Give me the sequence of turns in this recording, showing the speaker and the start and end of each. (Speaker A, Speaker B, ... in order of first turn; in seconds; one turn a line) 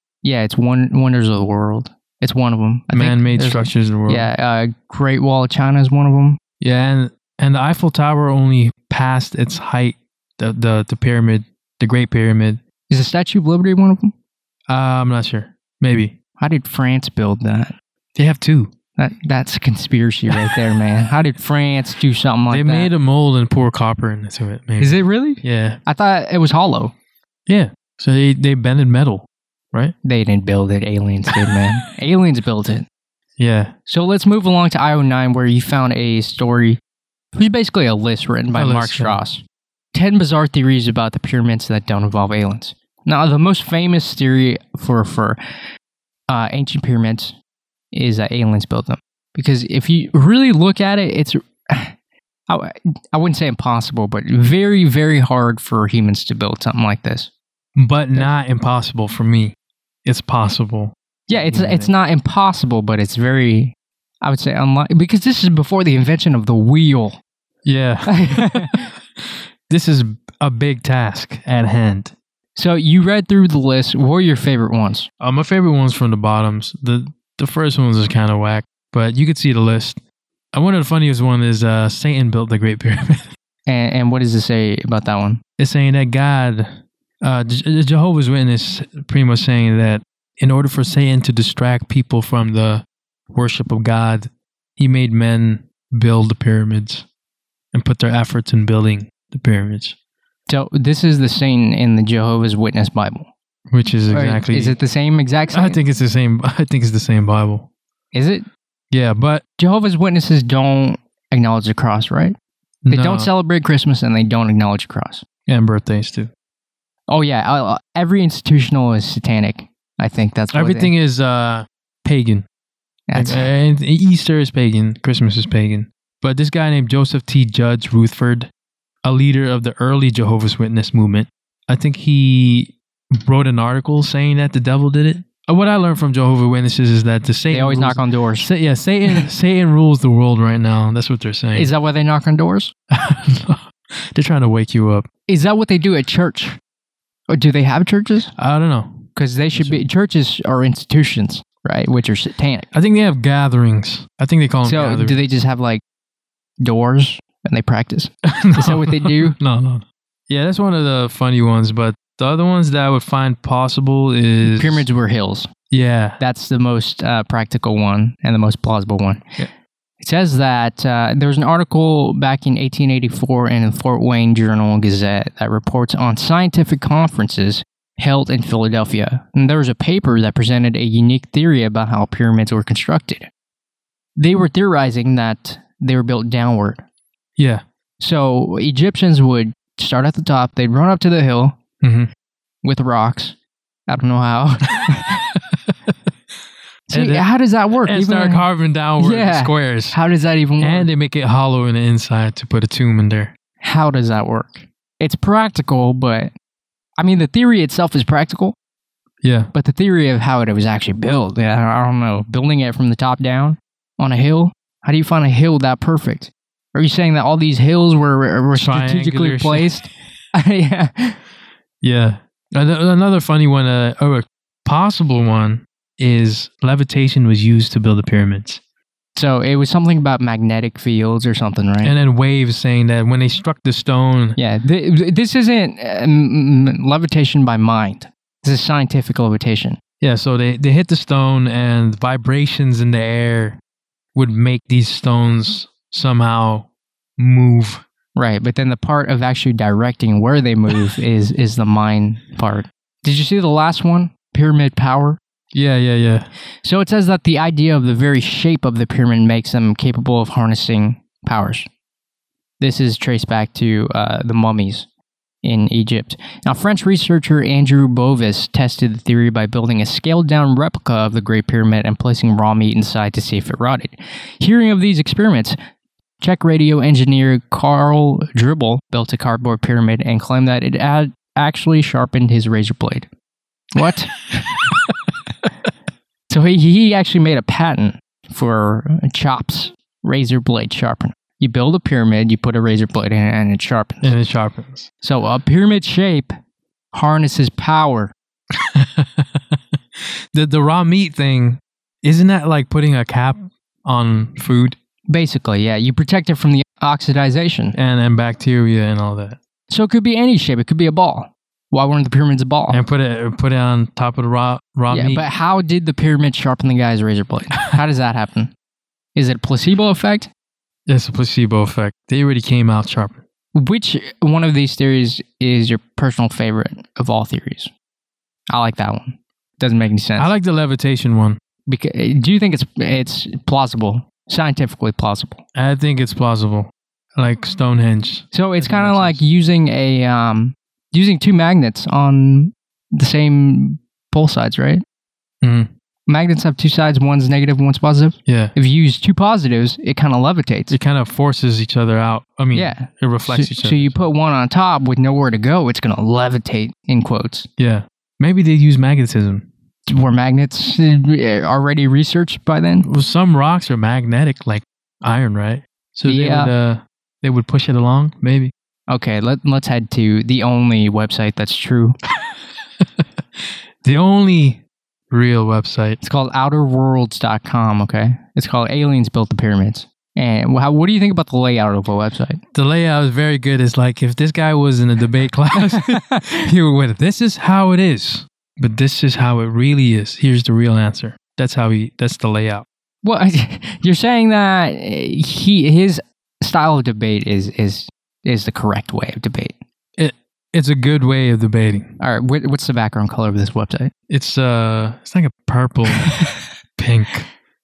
Speaker A: 0.2-6.4
Speaker B: 2.9-4.3
Speaker B: 6.6-12.6
Speaker A: 12.9-14.1
Speaker B: 14.7-16.1
Speaker A: 16.4-17.7
Speaker B: 18.1-18.7
Speaker A: 19.0-22.9
Speaker B: 22.5-25.8
Speaker A: 24.8-26.9
Speaker B: 27.5-29.9
Speaker A: 30.0-32.9
Speaker B: 31.3-31.8
Speaker B: 33.4-33.7
Speaker A: 33.9-36.8
Speaker A: 37.3-39.4
Speaker B: 38.5-39.2
Speaker A: 39.9-45.4
Speaker A: 46.3-47.3
Speaker A: 47.9-51.9
Speaker A: 52.5-57.3
Speaker B: 57.8-59.5
Speaker B: 60.0-61.9
Speaker A: 61.3-67.2
Speaker B: 67.6-68.9
Speaker A: 68.1-68.9
Speaker B: 69.7-72.1
Speaker A: 72.5-75.1
Speaker B: 75.2-80.0
Speaker B: 80.5-83.3
Speaker A: 83.7-85.4
Speaker B: 85.6-97.0
Speaker B: 97.7-99.9
Speaker A: 100.5-103.3
Speaker B: 103.7-104.8
Speaker A: 104.1-105.8
Speaker B: 105.5-107.7
Speaker A: 108.1-108.5
Speaker B: 108.9-109.4
Speaker A: 109.6-112.4
Speaker B: 112.8-113.3
Speaker A: 112.9-115.2
Speaker B: 115.5-116.3
Speaker A: 117.1-120.9
Speaker B: 120.5-122.5
Speaker A: 123.1-123.5
Speaker B: 123.1-128.5
Speaker B: 129.0-141.7
Speaker A: 137.5-138.5
Speaker A: 141.6-142.7
Speaker B: 142.9-145.1
Speaker A: 145.3-146.6
Speaker A: 147.3-148.3
Speaker B: 148.4-149.8
Speaker A: 149.2-152.7
Speaker B: 152.7-155.2
Speaker A: 154.6-155.8
Speaker A: 156.6-159.4
Speaker B: 158.3-164.9
Speaker A: 164.4-165.5
Speaker B: 165.7-166.2
Speaker A: 166.2-169.4
Speaker A: 170.0-183.3
Speaker A: 184.2-186.8
Speaker B: 187.4-187.6
Speaker A: 188.0-191.6
Speaker B: 191.8-192.1
Speaker A: 192.6-193.3
Speaker A: 193.9-195.2
Speaker B: 194.8-195.4
Speaker A: 196.9-198.4
Speaker B: 196.9-197.3
Speaker B: 197.8-200.0
Speaker A: 199.0-200.9
Speaker B: 200.6-203.3
Speaker A: 203.6-206.3
Speaker A: 207.0-208.6
Speaker B: 209.2-209.5
Speaker A: 209.5-221.2
Speaker B: 218.6-219.7
Speaker B: 221.8-228.6
Speaker A: 229.2-231.9
Speaker B: 231.8-234.4
Speaker A: 234.4-239.8
Speaker B: 240.0-243.6
Speaker B: 244.1-247.8
Speaker A: 248.2-255.2
Speaker B: 255.5-256.3
Speaker A: 256.6-261.7
Speaker A: 262.6-264.9
Speaker A: 265.4-275.6
Speaker A: 276.2-283.1
Speaker A: 283.7-284.7
Speaker A: 286.3-294.1
Speaker B: 294.0-294.9
Speaker A: 295.0-296.3
Speaker A: 296.9-298.1
Speaker B: 298.6-304.8
Speaker A: 305.1-307.7
Speaker B: 307.7-309.4
Speaker A: 309.7-312.8
Speaker B: 312.7-315.2
Speaker A: 314.9-318.5
Speaker A: 319.1-320.3
Speaker B: 320.9-323.2
Speaker A: 323.6-327.7
Speaker A: 328.5-330.3
Speaker B: 330.2-331.4
Speaker A: 331.7-335.4
Speaker B: 335.6-339.2
Speaker A: 338.3-344.8
Speaker B: 345.4-345.7
Speaker A: 346.1-350.7
Speaker B: 348.3-348.5
Speaker B: 350.7-354.0
Speaker A: 352.5-357.5
Speaker B: 357.6-359.5
Speaker A: 359.9-362.9
Speaker B: 362.8-368.5
Speaker A: 366.1-366.5
Speaker A: 368.9-372.0
Speaker B: 372.8-376.0
Speaker A: 376.0-382.4
Speaker B: 382.5-392.6
Speaker A: 385.6-386.4
Speaker A: 393.0-399.6
Speaker B: 400.0-401.9
Speaker A: 402.0-403.9
Speaker B: 404.1-406.1
Speaker A: 406.0-406.3
Speaker B: 406.8-407.3